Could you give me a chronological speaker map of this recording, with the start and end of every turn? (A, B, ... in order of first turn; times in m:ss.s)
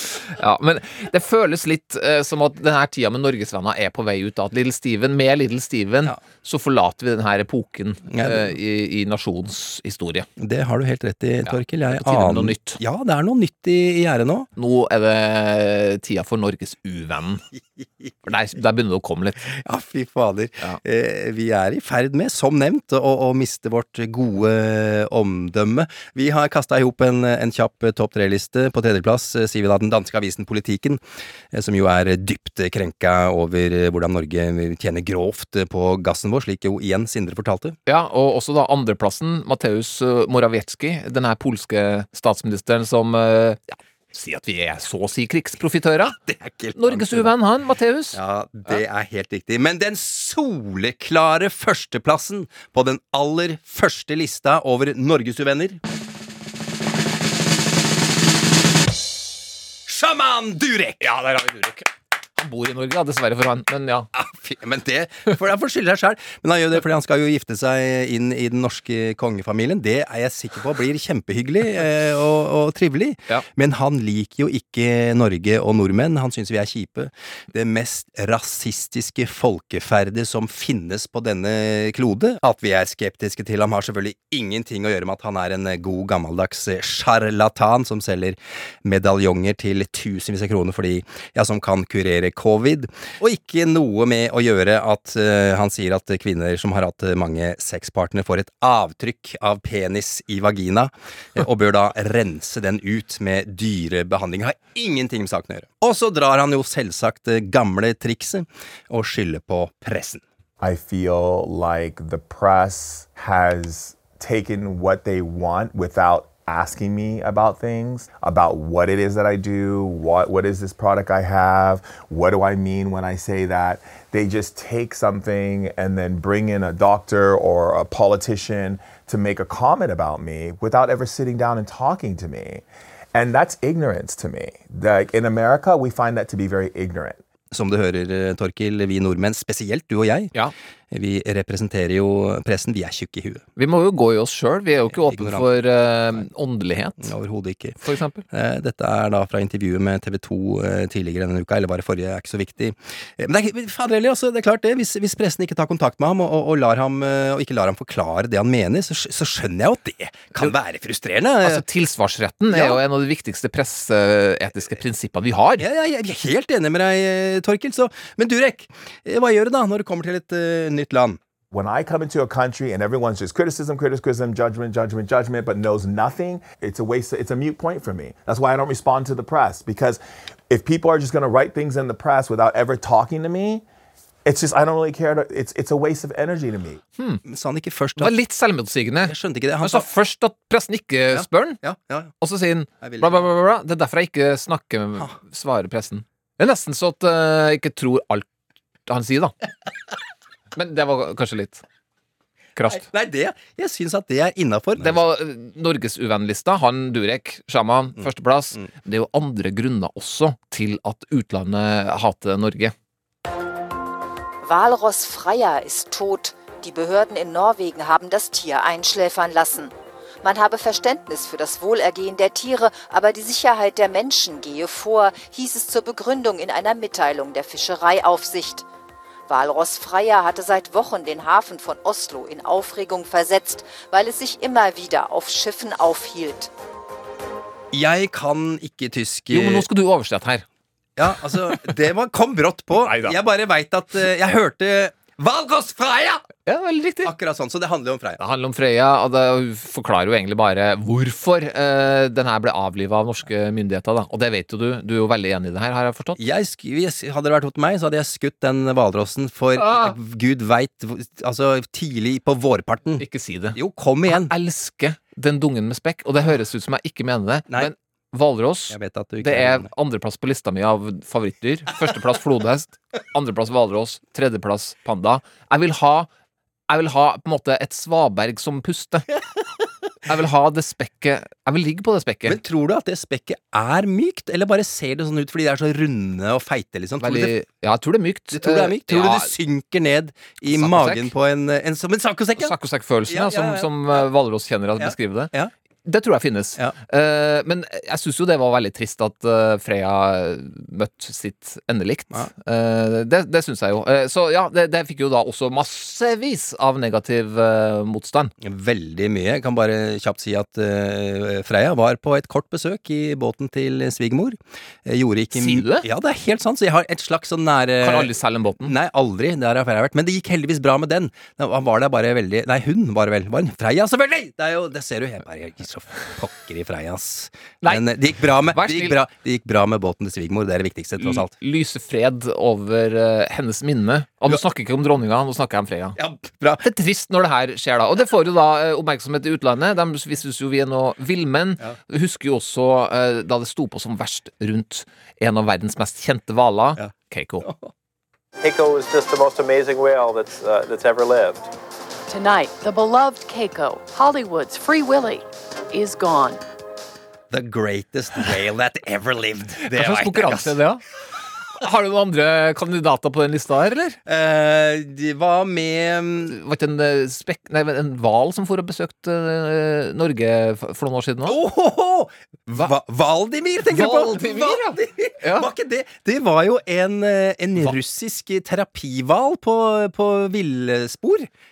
0:00.3-0:10.3 A
0:08.1-0:08.5 B
0:10.4-0:14.5 B
0:11.4-0:12.8 A
0:14.6-0:17.4 A
0:17.5-0:18.2 B
0:18.3-0:19.4 A
0:19.4-0:31.0 B
0:31.5-0:37.8 B
0:37.8-0:46.1 A
0:46.1-0:47.3 B
0:46.8-0:48.2 A
0:48.1-0:55.8 B
0:59.8-1:01.0 B
1:01.0-1:04.1 A
1:04.1-1:50.2 B
1:50.6-2:17.2 C
2:17.5-2:20.3 B
2:20.9-2:23.4 B
2:23.6-2:27.1 A
2:24.9-2:25.5 B
2:27.0-2:27.8 B
2:27.8-2:28.2 A
2:28.3-2:41.6 B
2:41.4-2:45.6 A
2:42.5-2:42.8 B
2:45.6-2:51.2 B
2:51.5-3:03.6 C
3:04.2-3:06.8 C
3:07.2-3:08.1 B
3:08.0-3:11.6 A
3:09.0-3:09.9 B
3:11.1-3:12.1 B
3:12.2-3:18.3 A
3:12.8-3:13.2 B
3:18.9-3:19.3 A
3:20.6-3:21.6 A
3:22.6-3:22.8 A
3:22.6-3:25.0 B
3:24.8-3:32.7 A
3:28.0-3:28.7 B
3:34.4-3:48.6 D
3:49.3-3:56.5 D
3:57.7-3:59.6 B
3:59.3-4:00.4 A
4:01.0-4:06.2 B
4:02.8-4:03.2 A
4:06.4-4:07.1 A
4:07.0-4:08.2 B
4:08.2-4:16.2 A
4:16.2-4:24.3 B
4:19.6-4:19.9 A
4:23.0-4:36.1 A
4:28.7-4:29.7 B
4:36.7-4:39.0 A
4:40.1-4:42.4 A
4:42.2-4:47.3 B
4:47.0-4:49.3 A
4:48.3-4:52.5 B
4:50.5-4:51.1 A
4:52.4-4:55.3 A
4:53.1-4:54.0 B
4:54.8-4:55.5 B
4:55.8-5:08.3 A
5:08.4-5:31.3 B
5:15.3-5:15.8 A
5:17.8-5:18.7 A
5:28.4-5:29.0 A
5:31.0-5:36.0 A
5:36.0-5:36.6 B
5:36.6-5:47.5 A
5:47.4-5:47.7 B
5:48.4-5:51.5 E
5:52.1-5:56.4 F
5:57.3-6:00.6 B
5:59.7-6:00.8 A
6:01.6-6:04.0 A
6:04.0-6:06.3 B
6:06.3-6:11.4 A
6:11.2-6:21.3 B
6:13.7-6:15.5 A